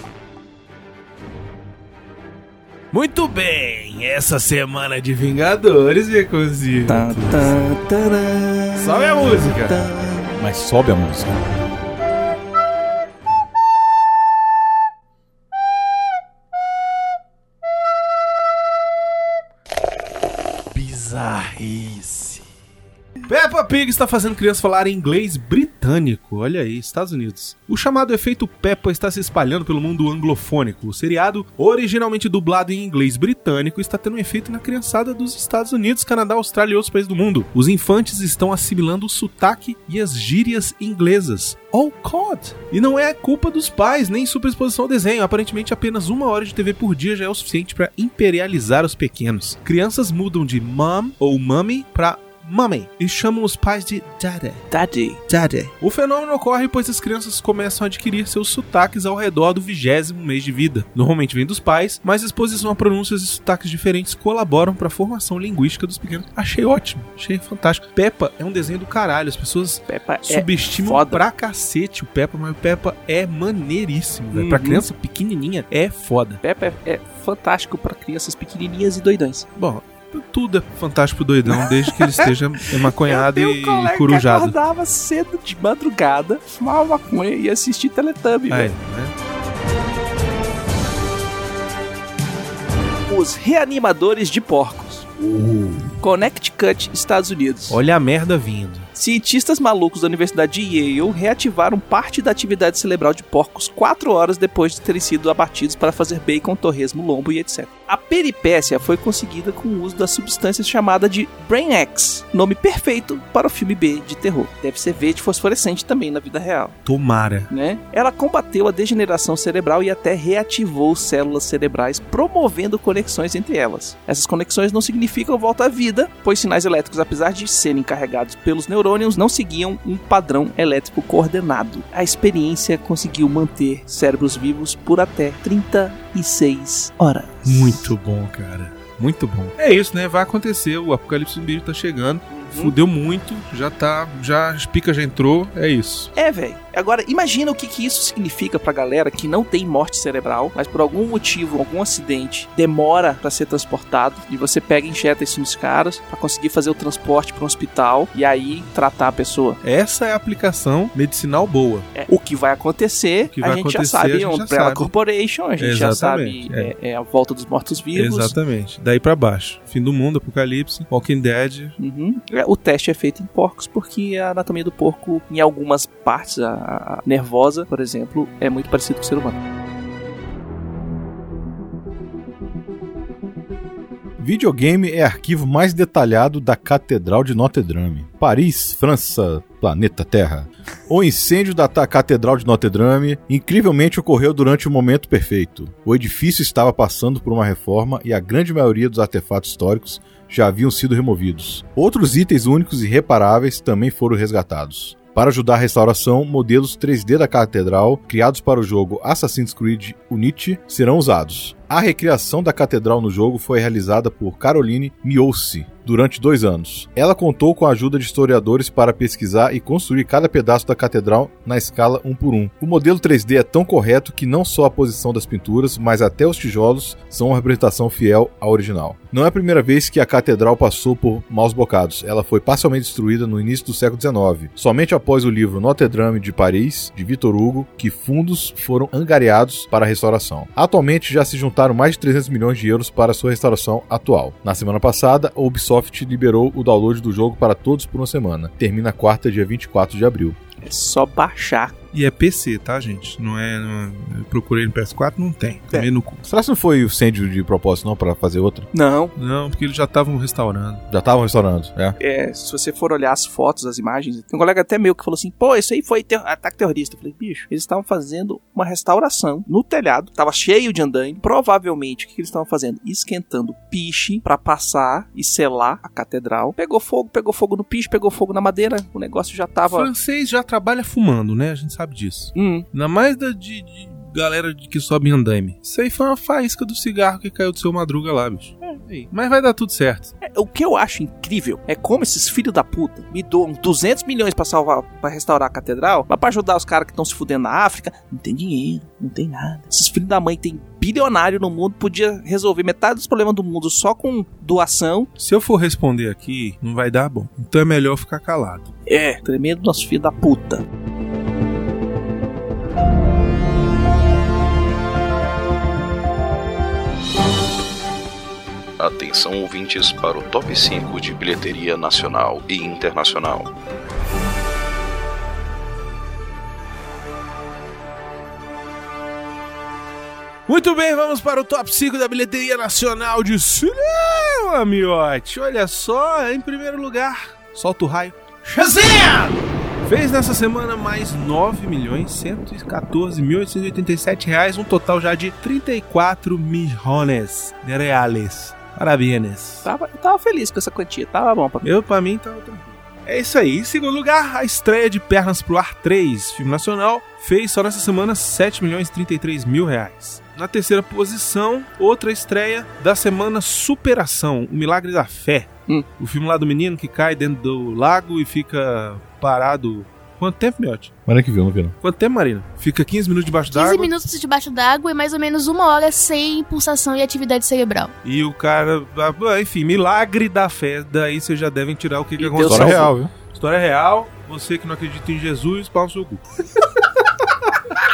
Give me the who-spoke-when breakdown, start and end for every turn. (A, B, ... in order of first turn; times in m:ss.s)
0:02.9-0:07.5 A
0:06.9-0:10.4 B
0:08.8-0:09.8 A
0:10.4-0:11.3 C
0:20.7-0:22.4 A
0:23.3-0:54.7 A
0:54.7-0:55.2 B
0:55.3-1:16.4 A
1:09.9-1:11.2 B
1:14.3-1:14.8 B
1:16.4-1:19.5 B
1:19.6-1:24.6 A
1:21.5-1:22.3 B
1:23.0-1:28.7 B
1:28.5-1:29.1 A
1:33.1-1:35.1 B
1:35.2-1:36.0 A
1:36.0-1:37.8 B
1:37.7-1:38.9 A
1:39.0-1:56.8 B
1:56.9-1:57.5 A
1:57.5-2:17.9 B
2:17.5-2:26.1 A
2:22.3-2:22.7 B
2:26.2-2:39.6 B
2:39.6-2:42.0 A
2:42.0-2:48.3 B
2:43.3-2:44.9 A
2:45.6-2:46.7 A
2:48.0-2:51.8 A
2:51.8-2:59.4 B
3:04.2-4:10.4 C
4:10.6-4:11.8 B
4:11.9-4:16.2 A
4:16.2-4:18.7 C
4:18.7-4:19.1 B
4:19.2-4:20.8 A
4:20.9-4:22.0 C
4:22.0-4:39.9 B
4:39.7-4:48.6 A
4:42.4-4:42.7 B
4:48.6-4:49.1 B
4:49.1-4:50.1 A
4:50.2-5:05.1 B
5:05.2-5:08.7 A
5:08.9-5:10.6 B
5:18.8-5:23.5 D
5:30.5-5:49.7 A
5:49.6-5:51.7 B
5:51.6-6:10.9 A
6:11.1-6:11.8 C
6:11.8-6:13.9 A
6:13.5-6:17.9 E
6:18.0-6:26.2 A
6:22.2-6:22.9 B
6:22.5-6:23.1 C